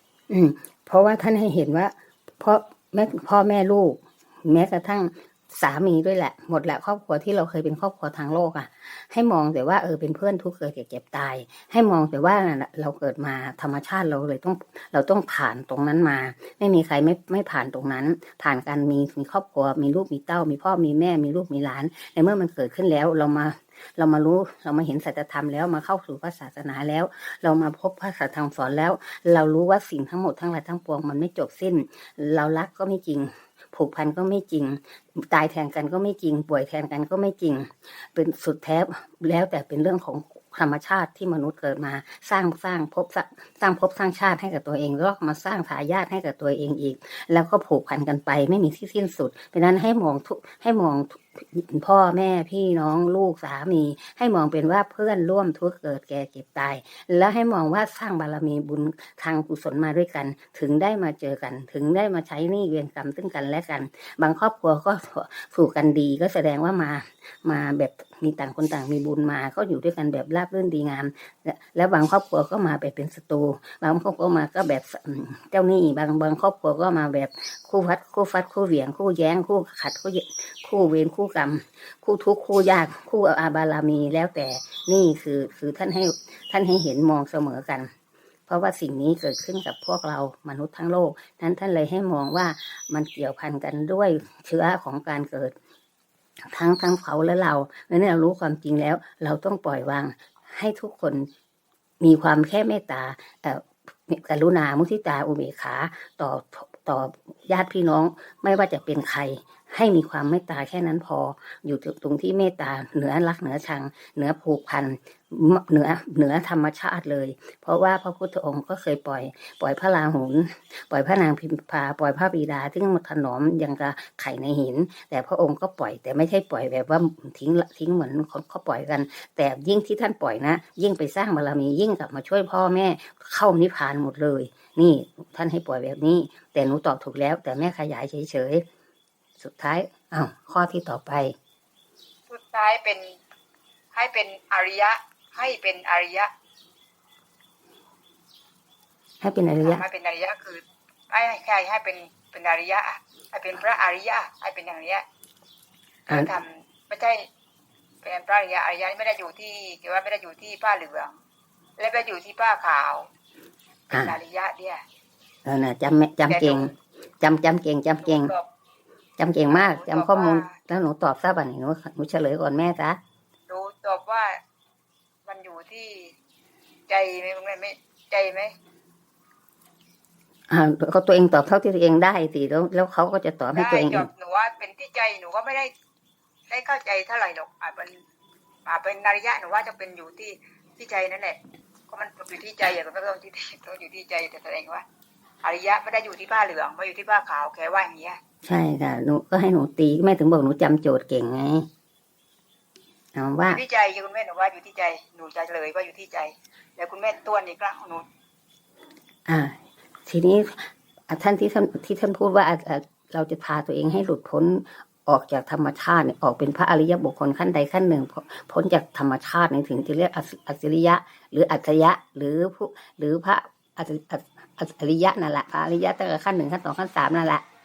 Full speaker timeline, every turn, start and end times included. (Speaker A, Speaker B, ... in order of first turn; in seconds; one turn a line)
Speaker A: 0.3-87.9
Speaker A: 88.5-95.5
Speaker A: 96.5-101.3
Speaker A: 102.0-138.6
Speaker A: 139.4-141.3
Speaker B: 142.3-143.2
Speaker B: 143.9-146.3
Speaker A: 149.2-149.8
Speaker B: 149.6-155.0
Speaker B: 156.1-157.2
Speaker B: 158.0-161.1
Speaker B: 161.8-163.1
Speaker A: 163.9-164.2
Speaker B: 163.9-164.8
Speaker A: 165.4-168.3
Speaker B: 166.3-166.7
Speaker B: 168.0-168.4
Speaker A: 169.2-173.0
Speaker B: 169.5-170.5
Speaker B: 173.5-174.4
Speaker B: 175.2-176.1
Speaker B: 176.9-178.5
Speaker A: 180.5-184.1
Speaker B: 183.5-185.7
Speaker B: 186.5-188.0
Speaker B: 188.7-194.8
Speaker B: 195.4-198.2
Speaker A: 198.4-201.7
Speaker A: 203.1-203.6
Speaker B: 203.5-208.0
Speaker A: 209.3-227.4